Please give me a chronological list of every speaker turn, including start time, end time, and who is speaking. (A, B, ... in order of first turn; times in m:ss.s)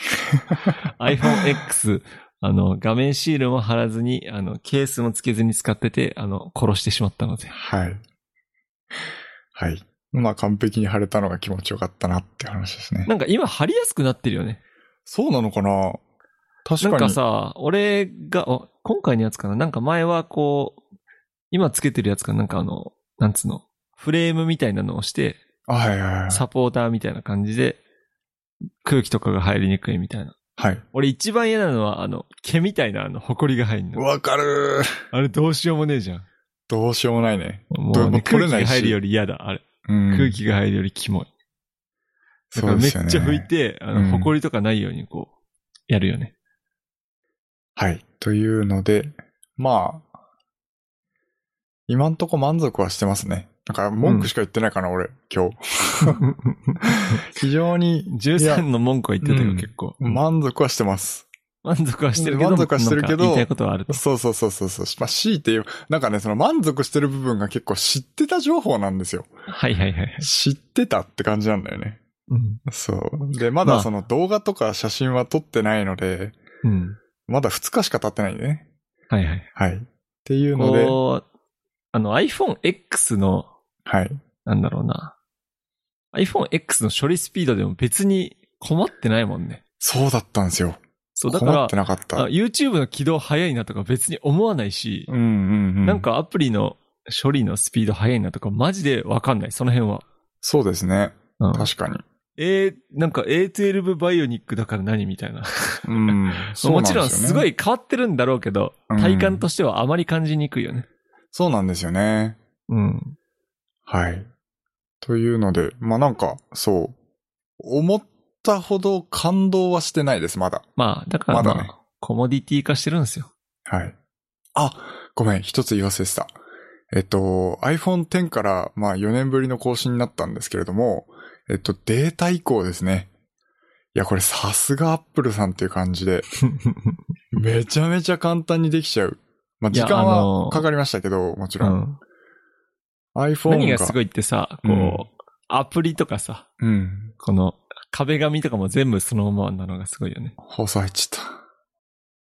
0:00.3-0:01.4 A
0:00.8-0:07.5 B
0:07.5-0:08.0 A
0:09.6-0:13.1 A
0:13.1-0:14.6 B
0:15.1-0:16.0 A
0:16.6-0:17.2 A
0:16.8-0:20.8 B
0:21.5-0:25.4 B
0:25.7-0:26.4 A
0:26.3-0:27.8 B
0:28.8-0:30.4 B
0:30.6-0:30.8 A
0:30.9-0:34.0 B
0:34.0-0:35.0 A
0:35.1-0:36.3 B
0:36.7-0:39.0 A
0:37.7-0:41.3 B
0:39.9-0:40.4 A
0:42.5-0:44.3 A
0:42.5-0:45.3 B
0:45.9-0:46.3 B
0:47.8-0:50.1 A
0:51.9-0:56.3 A
0:54.0-0:54.3 B
0:56.2-0:57.2 B
0:56.8-0:58.6 A
0:58.1-1:00.2 B
0:59.2-1:01.3 A
1:01.6-1:04.0 B
1:02.2-1:09.3 A
1:09.5-1:10.3 B
1:10.2-1:12.0 A
1:12.3-1:12.6 B
1:12.7-1:16.4 A
1:13.6-1:13.9 B
1:16.6-1:17.0 B
1:17.3-1:18.7 A
1:19.1-1:19.5 B
1:19.6-1:21.0 A
1:20.6-1:21.2 B
1:21.9-1:23.5 B
1:23.9-1:24.2 A
1:24.4-1:25.1 B
1:26.1-1:29.6 B
1:29.8-1:32.3 A
1:31.2-1:35.1 B
1:35.1-1:36.1 A
1:35.8-1:40.0 B
1:40.4-1:42.0 A
1:41.4-1:41.7 B
1:42.4-1:50.9 B
1:45.8-1:47.5 A
1:48.9-1:49.4 A
1:51.3-1:52.4 A
1:52.7-1:53.2 B
1:53.9-1:54.3 A
1:55.0-1:57.0 A
1:57.6-2:00.7 A
2:00.8-2:03.3 B
2:01.3-2:01.7 A
2:03.7-2:04.0 A
2:04.6-2:06.3 A
2:06.9-2:13.1 A
2:14.0-2:16.3 A
2:16.4-2:17.0 B
2:17.3-2:21.8 A
2:19.7-2:20.6 B
2:21.6-2:22.0 B
2:23.2-2:24.0 A
2:23.5-2:26.5 B
2:24.6-2:25.1 A
2:26.6-2:27.2 A
2:27.2-2:30.4 B
2:30.4-2:31.4 A